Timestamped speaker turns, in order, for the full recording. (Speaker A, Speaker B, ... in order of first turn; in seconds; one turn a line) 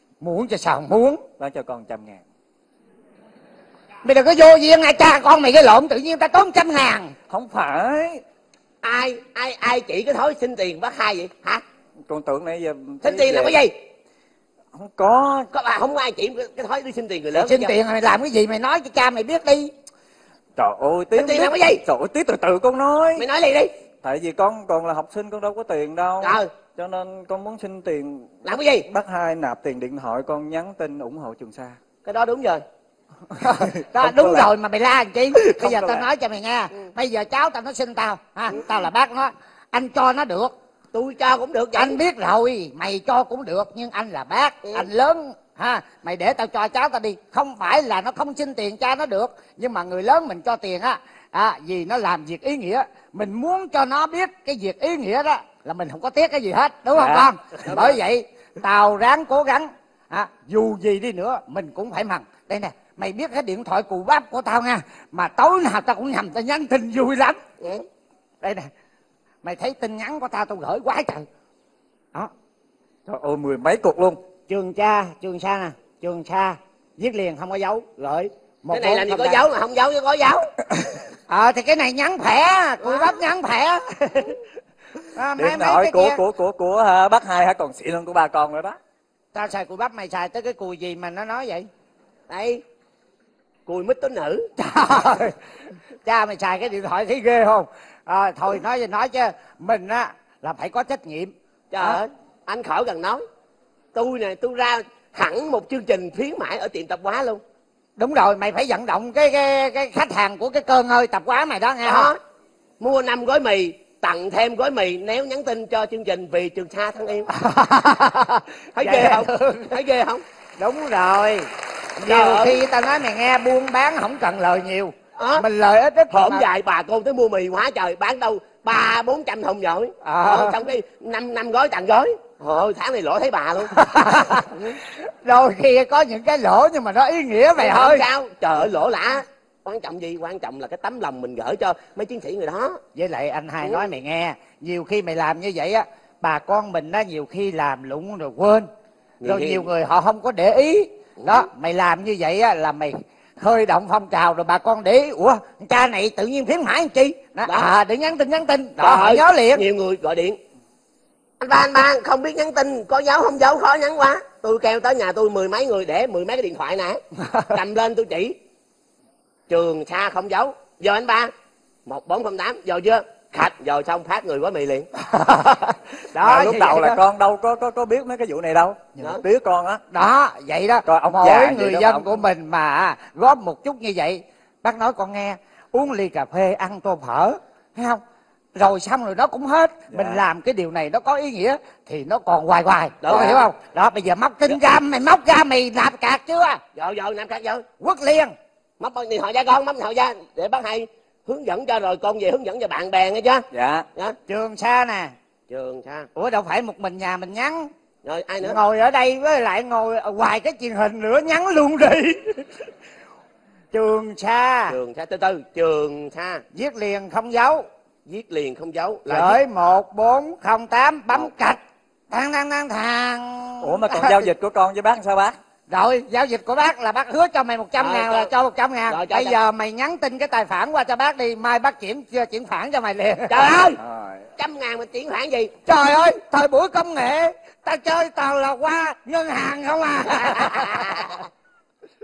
Speaker A: 0.2-1.2
Speaker B: 1.4-2.2
Speaker A: 4.0-7.1
Speaker B: 7.3-8.2
Speaker C: 8.8-11.6
Speaker B: 12.1-13.6
Speaker C: 13.0-13.7
Speaker B: 14.7-15.5
Speaker C: 15.5-17.7
Speaker A: 17.3-19.7
Speaker B: 20.6-23.2
Speaker C: 21.1-21.8
Speaker C: 23.2-23.7
Speaker B: 24.0-31.8
Speaker C: 26.2-26.5
Speaker C: 28.4-28.9
Speaker C: 32.0-32.6
Speaker A: 33.3-40.5
Speaker B: 33.4-34.5
Speaker B: 35.7-36.0
Speaker C: 40.9-42.0
Speaker A: 41.8-67.4
Speaker C: 44.6-44.9
Speaker B: 56.9-57.3
Speaker C: 57.6-58.0
Speaker A: 68.4-68.7
Speaker A: 69.4-71.2
Speaker B: 73.1-74.2
Speaker A: 74.5-79.4
Speaker C: 78.7-80.4
Speaker A: 81.3-84.4
Speaker C: 82.8-83.2
Speaker A: 85.1-86.2
Speaker B: 85.4-88.8
Speaker A: 89.3-91.7
Speaker C: 92.3-92.6
Speaker C: 93.7-94.4
Speaker A: 94.6-95.3
Speaker A: 96.0-102.0
Speaker C: 101.7-103.2
Speaker C: 103.9-107.4
Speaker A: 108.0-112.1
Speaker C: 111.8-112.2
Speaker C: 112.8-117.3
Speaker A: 117.3-119.7
Speaker C: 118.8-120.2
Speaker A: 120.6-126.4
Speaker C: 122.0-122.6
Speaker C: 125.2-125.4
Speaker C: 126.1-134.7
Speaker A: 130.0-130.5
Speaker A: 133.7-138.1
Speaker C: 137.6-142.8
Speaker A: 142.9-148.7
Speaker C: 143.6-143.9
Speaker C: 149.2-149.7
Speaker A: 149.2-159.6
Speaker C: 151.2-151.5
Speaker C: 158.8-160.4
Speaker C: 161.4-167.0
Speaker A: 167.2-167.5
Speaker C: 167.5-168.3
Speaker C: 169.5-171.3
Speaker C: 171.8-174.9
Speaker A: 175.0-177.0
Speaker B: 176.2-179.8
Speaker A: 179.9-188.0
Speaker B: 180.8-182.2
Speaker A: 188.5-196.6
Speaker B: 189.9-190.2
Speaker C: 193.0-193.5
Speaker C: 196.7-197.6
Speaker A: 197.8-198.3
Speaker C: 198.8-204.2
Speaker B: 203.5-203.9
Speaker A: 204.3-205.1
Speaker C: 205.5-206.1
Speaker A: 206.1-207.7
Speaker C: 208.0-208.6
Speaker A: 208.4-212.4
Speaker A: 213.7-214.8
Speaker C: 214.7-216.4
Speaker A: 216.5-217.7
Speaker C: 218.1-219.4
Speaker A: 219.1-224.3
Speaker B: 223.6-225.3
Speaker A: 225.7-233.4
Speaker C: 227.8-228.3
Speaker C: 228.9-229.4
Speaker C: 233.3-233.8
Speaker B: 233.8-234.3
Speaker C: 234.4-235.5
Speaker A: 235.7-241.2
Speaker C: 240.2-241.2